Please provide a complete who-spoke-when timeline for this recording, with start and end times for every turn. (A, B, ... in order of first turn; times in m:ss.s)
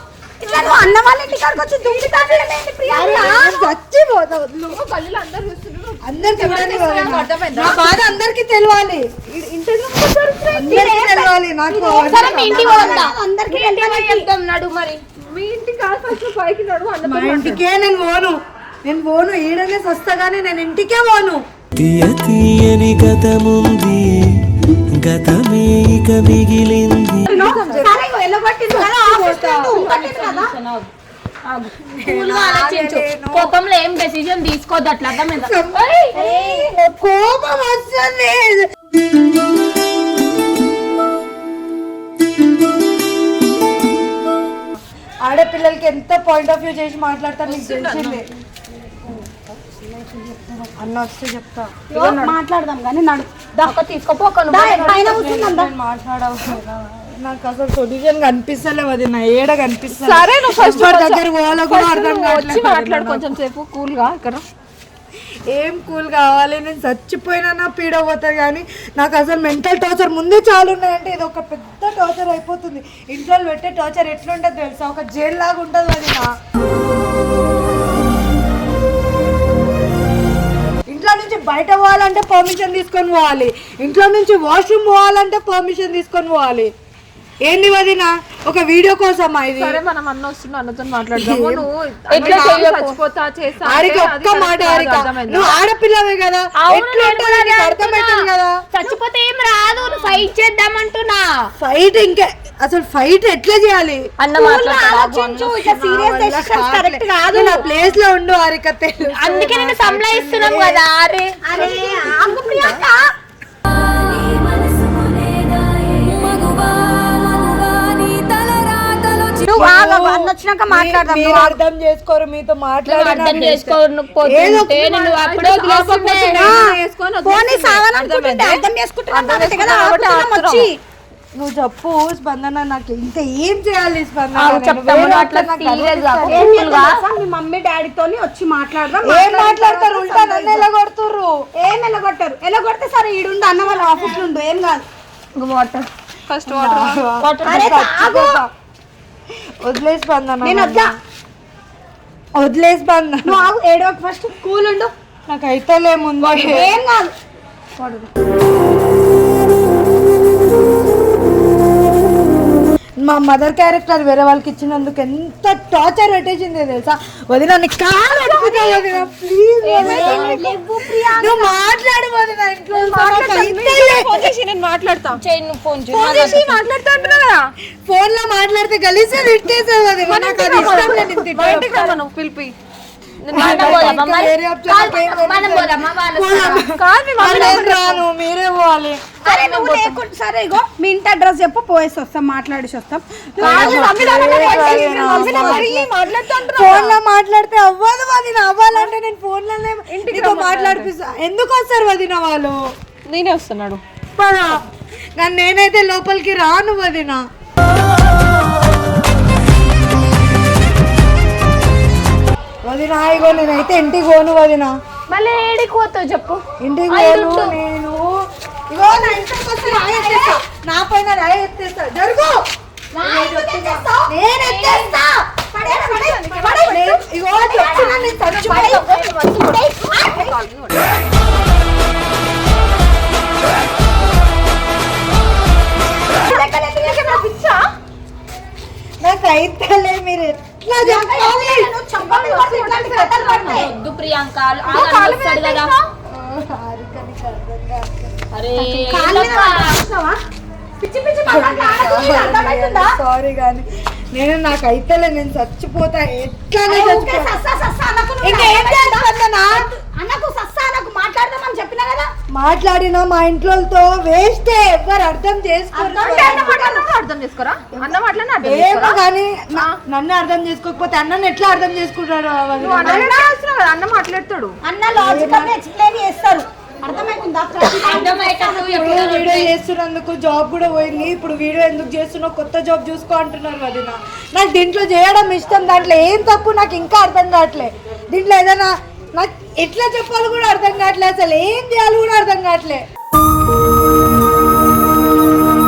0:00.4-0:03.7 A
0:02.9-0:04.8 B
0:04.7-0:07.9 C
0:06.0-0:09.1 B
0:09.3-0:10.8 C
0:10.5-0:13.0 B
0:10.6-0:14.3 A
0:12.0-0:15.0 D
0:15.3-0:17.6 C
0:17.1-0:21.4 B
0:21.8-0:24.0 E
0:25.0-0:27.2 E
0:27.2-0:28.0 C
0:27.3-0:30.5 A
0:27.3-0:28.0 B
0:28.7-0:29.9 B
0:29.7-0:30.9 D
0:31.5-0:36.7 D
0:32.0-0:33.5 B
0:35.3-0:38.7 B
0:45.2-0:48.2 B
0:47.5-0:48.3 C
0:49.1-0:50.7 A
0:50.8-0:52.3 B
0:51.9-0:53.8 A
0:53.6-0:55.2 D
0:54.5-0:55.7 A
0:54.8-1:03.3 B
1:00.0-1:04.4 C
1:05.5-1:16.3 B
1:20.9-1:26.7 B
1:27.5-1:29.8 B
1:29.6-1:35.6 C
1:31.2-1:32.9 B
1:32.1-1:32.8 D
1:33.7-1:38.6 B
1:36.6-1:38.1 D
1:38.7-1:41.3 D
1:39.8-1:40.3 C
1:41.6-1:44.1 B
1:44.2-1:45.8 D
1:44.3-1:47.6 A
1:45.8-1:50.8 B
1:49.1-1:51.8 D
1:51.4-1:53.0 A
1:51.6-1:52.8 C
1:53.7-1:59.6 D
1:59.5-2:01.6 A
1:59.6-2:04.7 B
2:02.9-2:06.6 D
2:04.7-2:10.7 C
2:06.3-2:10.8 A
2:11.4-2:16.5 B
2:14.4-2:17.0 D
2:16.3-2:20.7 A
2:19.0-2:21.3 B
2:21.6-2:24.8 A
2:25.4-2:25.8 D
2:26.3-2:27.0 C
2:26.5-2:28.5 B
2:27.2-2:27.7 D
2:27.4-2:28.4 A
2:29.6-2:30.9 B
2:30.4-2:30.9 A
2:32.4-2:33.4 B
2:33.2-2:34.9 A
2:35.3-2:36.7 B
2:36.2-2:37.1 A
2:43.0-2:50.5 B
2:48.4-2:48.7 C
2:49.7-2:50.4 D
2:49.8-2:51.5 A
2:51.2-2:54.2 B
2:52.7-2:55.2 C
2:55.2-2:56.6 D
2:55.9-2:57.5 C
2:57.9-3:02.0 B
3:00.1-3:02.5 C
3:03.3-3:04.0 C
3:03.3-3:06.6 D
3:03.3-3:09.0 B
3:06.6-3:08.0 C
3:09.2-3:16.1 A
3:09.2-3:10.0 C
3:13.4-3:17.0 C
3:13.4-3:15.9 B
3:13.6-3:13.9 D
3:16.5-3:22.6 B
3:19.9-3:20.9 C
3:23.1-3:23.8 C
3:24.2-3:24.6 B
3:25.2-3:27.2 B
3:32.7-3:34.8 B
3:35.1-3:37.6 D
3:36.6-3:38.1 B
3:38.7-3:42.4 B
3:38.7-3:40.4 A
3:42.9-3:50.3 A
3:43.1-3:45.0 B
3:45.6-3:46.8 C
3:46.7-3:48.8 B
3:47.6-3:50.9 C
3:56.2-3:57.3 A
3:56.8-3:57.6 C
3:59.0-4:01.7 B
4:00.8-4:03.7 A
4:02.0-4:03.7 C
4:03.4-4:05.7 D
4:04.6-4:05.9 C
4:06.1-4:08.2 B
4:08.3-4:09.7 D
4:08.6-4:10.2 A
4:10.8-4:12.9 A
4:11.3-4:17.4 B
4:16.7-4:22.1 A
4:18.2-4:19.7 B
4:22.3-4:26.5 B
4:25.7-4:26.9 A
4:26.0-4:29.0 C
4:28.4-4:33.1 B
4:32.6-4:34.6 C
4:32.7-4:33.3 A
4:34.6-4:38.9 A
4:35.0-4:35.6 B
4:37.7-4:39.5 D
4:38.6-4:52.8 B